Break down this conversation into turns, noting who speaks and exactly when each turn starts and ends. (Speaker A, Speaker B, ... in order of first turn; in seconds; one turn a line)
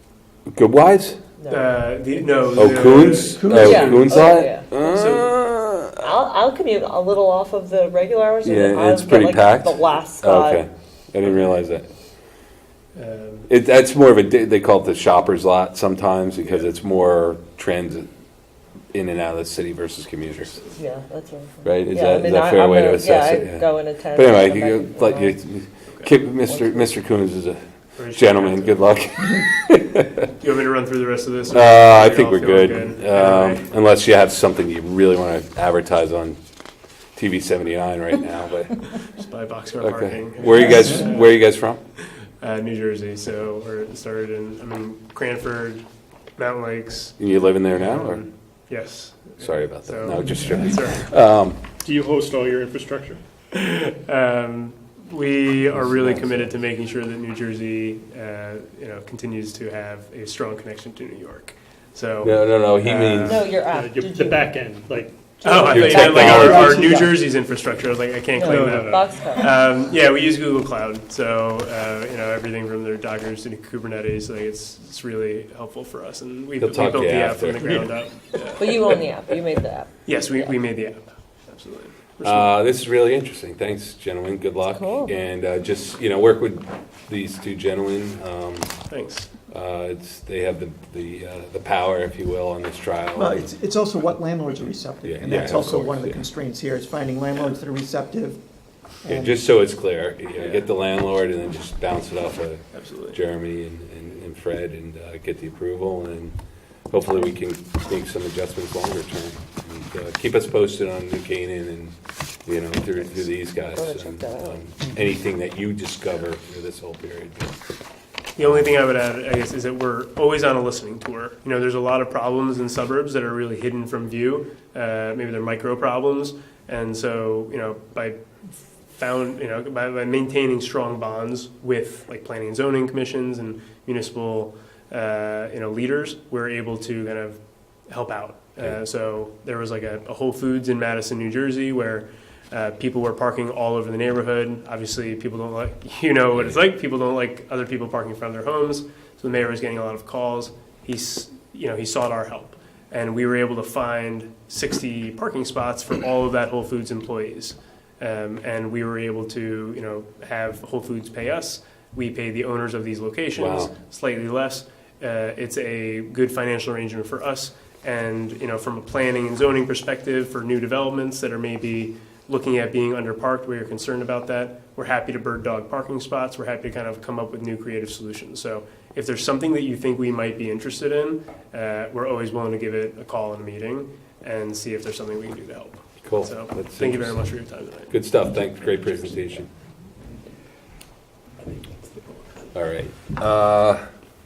Speaker A: 0.5-1.2
Speaker B: 1.4-1.7
Speaker C: 1.5-4.2
Speaker A: 2.5-6.1
Speaker B: 3.5-4.7
Speaker C: 4.8-5.3
Speaker B: 6.0-10.6
Speaker A: 8.4-11.9
Speaker C: 12.9-13.5
Speaker A: 13.5-18.1
Speaker A: 18.9-20.6
Speaker B: 20.6-25.4
Speaker A: 21.6-30.1
Speaker B: 26.4-27.0
Speaker C: 28.0-28.8
Speaker C: 30.4-33.7
Speaker A: 31.5-36.4
Speaker A: 37.1-38.8
Speaker C: 39.1-41.5
Speaker A: 39.8-41.8
Speaker C: 42.4-45.8
Speaker C: 46.4-47.2
Speaker A: 47.2-48.2
Speaker C: 47.7-51.1
Speaker A: 49.4-51.6
Speaker D: 51.8-53.2
Speaker C: 53.5-62.6
Speaker A: 55.8-56.5
Speaker A: 62.2-63.4
Speaker D: 62.8-66.8
Speaker B: 63.2-64.5
Speaker C: 65.4-79.0
Speaker B: 65.6-67.2
Speaker A: 65.7-66.7
Speaker B: 68.3-69.6
Speaker D: 68.5-69.0
Speaker A: 76.6-77.9
Speaker B: 78.6-80.5
Speaker C: 80.0-82.5
Speaker A: 82.2-88.8
Speaker B: 84.7-85.1
Speaker C: 88.9-89.3
Speaker A: 89.5-93.5
Speaker E: 93.1-98.4
Speaker A: 95.0-96.2
Speaker E: 99.0-99.4
Speaker A: 99.1-106.3
Speaker C: 100.4-100.7
Speaker C: 102.7-103.2
Speaker A: 106.9-111.9
Speaker A: 112.5-117.5
Speaker B: 113.7-114.6
Speaker C: 118.3-128.2
Speaker A: 118.4-118.8
Speaker C: 128.9-187.9
Speaker A: 163.3-163.7
Speaker A: 186.0-187.2
Speaker A: 187.9-189.5
Speaker A: 192.5-193.8